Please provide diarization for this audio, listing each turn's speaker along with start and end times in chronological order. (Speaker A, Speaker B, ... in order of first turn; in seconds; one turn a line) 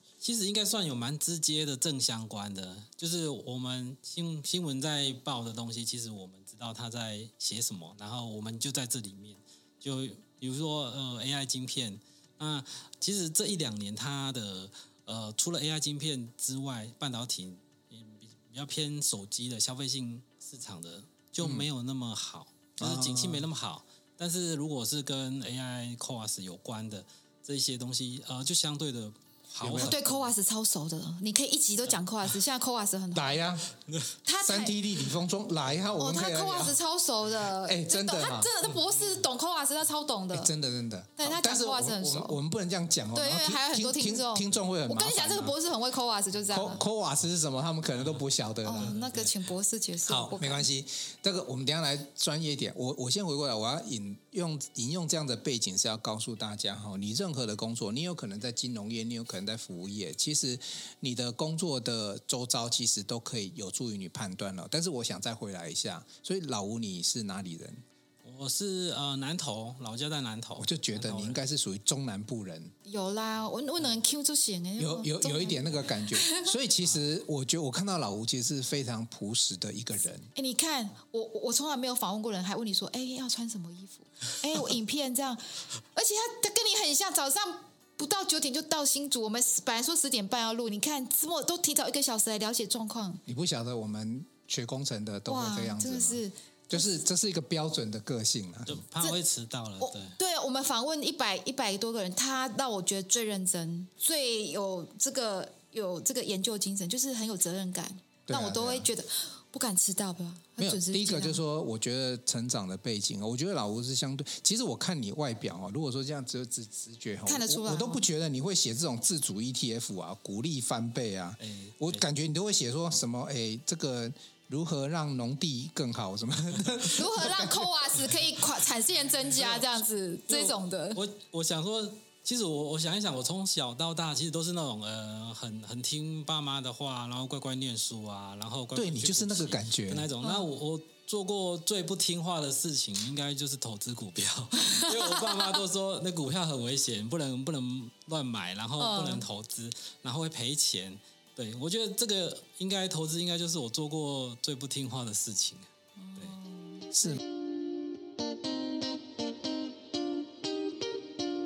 Speaker A: 0.2-30.3
Speaker B: 21.4-21.7
Speaker B: 22.8-23.5
Speaker B: 29.6-30.0
Speaker C: 29.8-33.4
Speaker B: 33.1-33.7
Speaker C: 34.2-34.8
Speaker B: 34.4-36.8
Speaker C: 36.0-40.5
Speaker B: 37.6-38.5
Speaker B: 40.3-45.6
Speaker C: 41.2-42.4
Speaker C: 43.1-46.8
Speaker B: 46.5-49.0
Speaker A: 48.0-48.2
Speaker C: 48.6-50.7
Speaker A: 48.7-49.4
Speaker B: 50.1-67.8
Speaker A: 68.2-71.4
Speaker B: 70.6-72.7
Speaker C: 72.9-76.5
Speaker B: 74.8-80.3
Speaker C: 80.3-93.2
Speaker B: 93.3-98.8
Speaker C: 95.3-97.0
Speaker A: 98.7-100.2
Speaker C: 99.8-111.4
Speaker B: 108.3-108.9
Speaker B: 110.6-128.0
Speaker C: 117.3-118.0
Speaker A: 121.4-122.1
Speaker C: 126.9-131.0
Speaker A: 130.3-155.7
Speaker B: 138.8-140.1
Speaker C: 144.7-145.5
Speaker C: 148.8-149.3
Speaker C: 156.0-156.9
Speaker B: 156.9-157.2